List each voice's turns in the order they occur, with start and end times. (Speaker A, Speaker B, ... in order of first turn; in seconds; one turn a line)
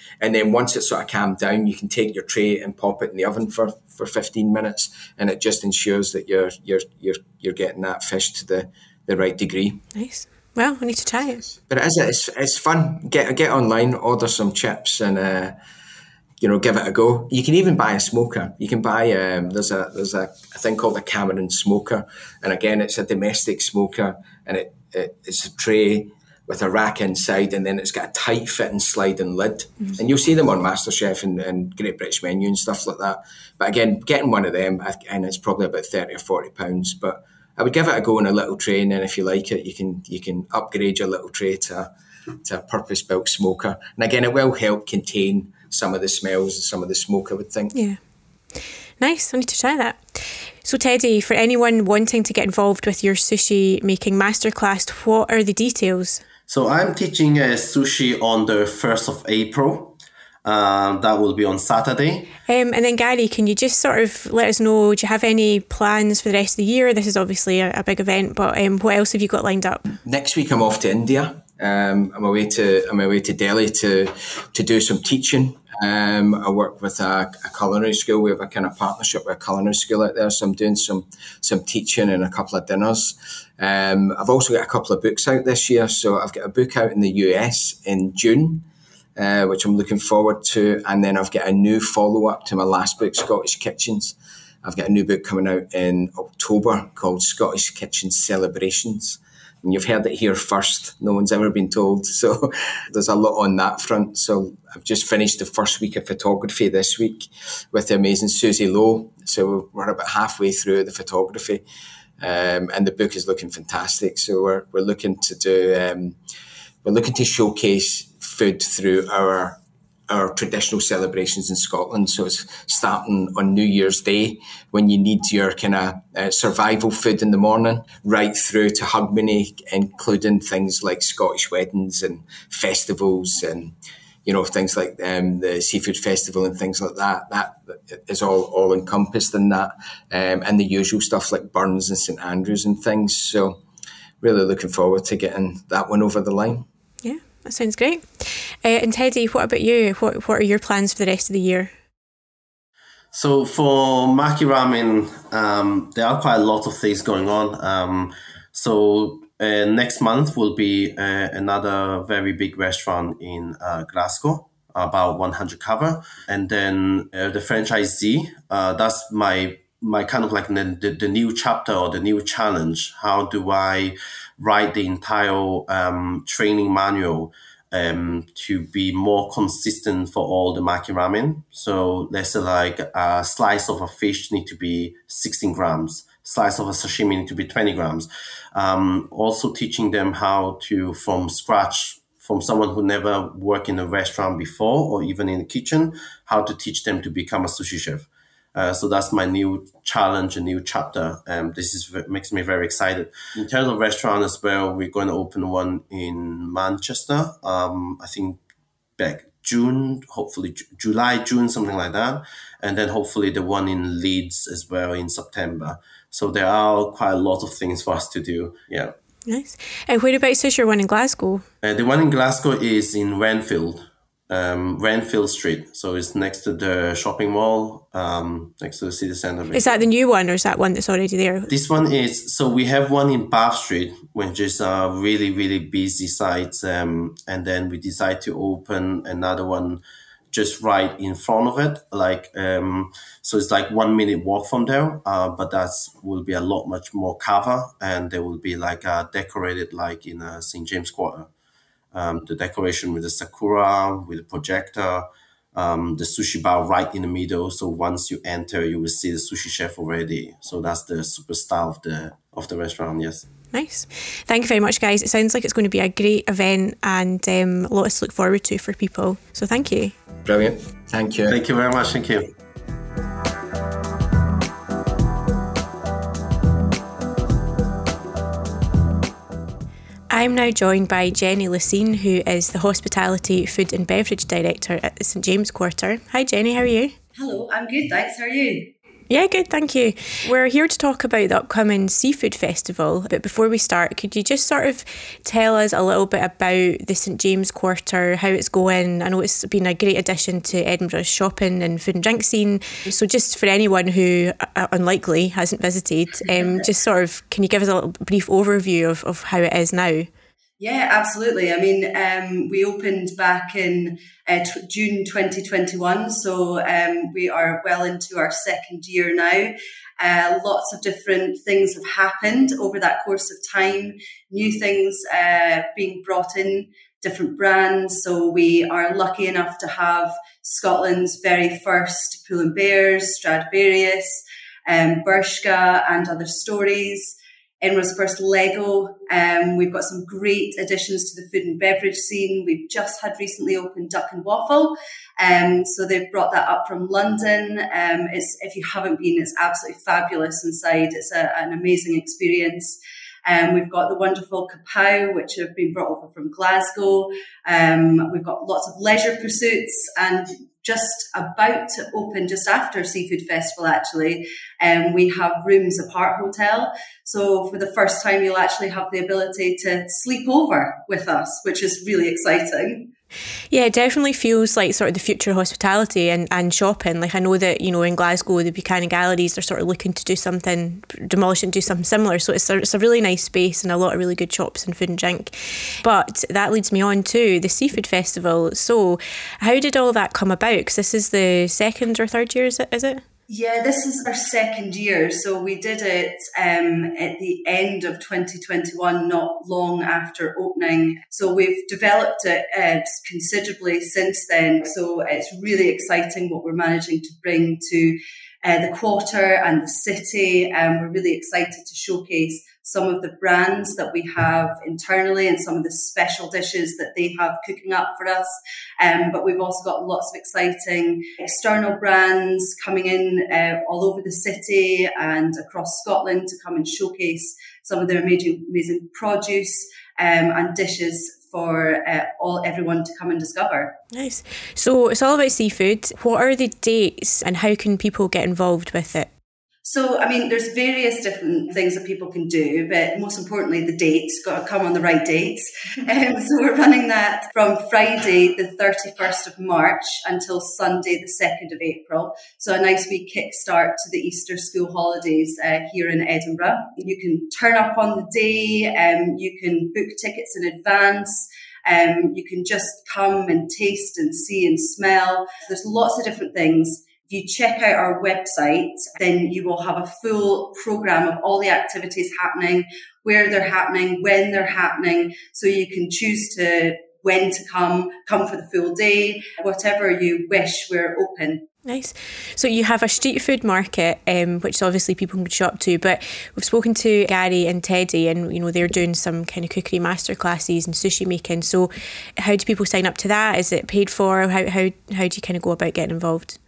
Speaker A: 0.2-9.8
Speaker B: 9.9-11.4
Speaker A: 11.6-15.6
Speaker A: 16.4-41.9
Speaker A: 42.4-47.8
Speaker B: 47.7-48.0
Speaker B: 49.0-56.2
Speaker C: 56.5-62.3
Speaker B: 62.5-69.8
Speaker A: 70.0-111.6
Speaker A: 112.2-116.2
Speaker A: 116.8-119.6
Speaker A: 120.1-143.6
Speaker A: 144.2-146.7
Speaker B: 147.0-151.7
Speaker C: 153.1-208.4
Speaker C: 209.0-218.9
Speaker B: 219.3-221.4
Speaker C: 221.6-229.7
Speaker B: 229.5-231.5
Speaker C: 231.5-251.3
Speaker C: 251.9-263.3
Speaker B: 263.5-269.9
Speaker A: 270.2-271.4
Speaker C: 271.3-272.3
Speaker B: 280.1-286.9
Speaker D: 287.2-288.7
Speaker B: 289.1-310.1
Speaker D: 310.6-372.9
Speaker B: 373.5-393.0
Speaker D: 393.3-433.7
Speaker B: 433.9-439.1
Speaker D: 439.6-481.4
Speaker B: 481.7-496.4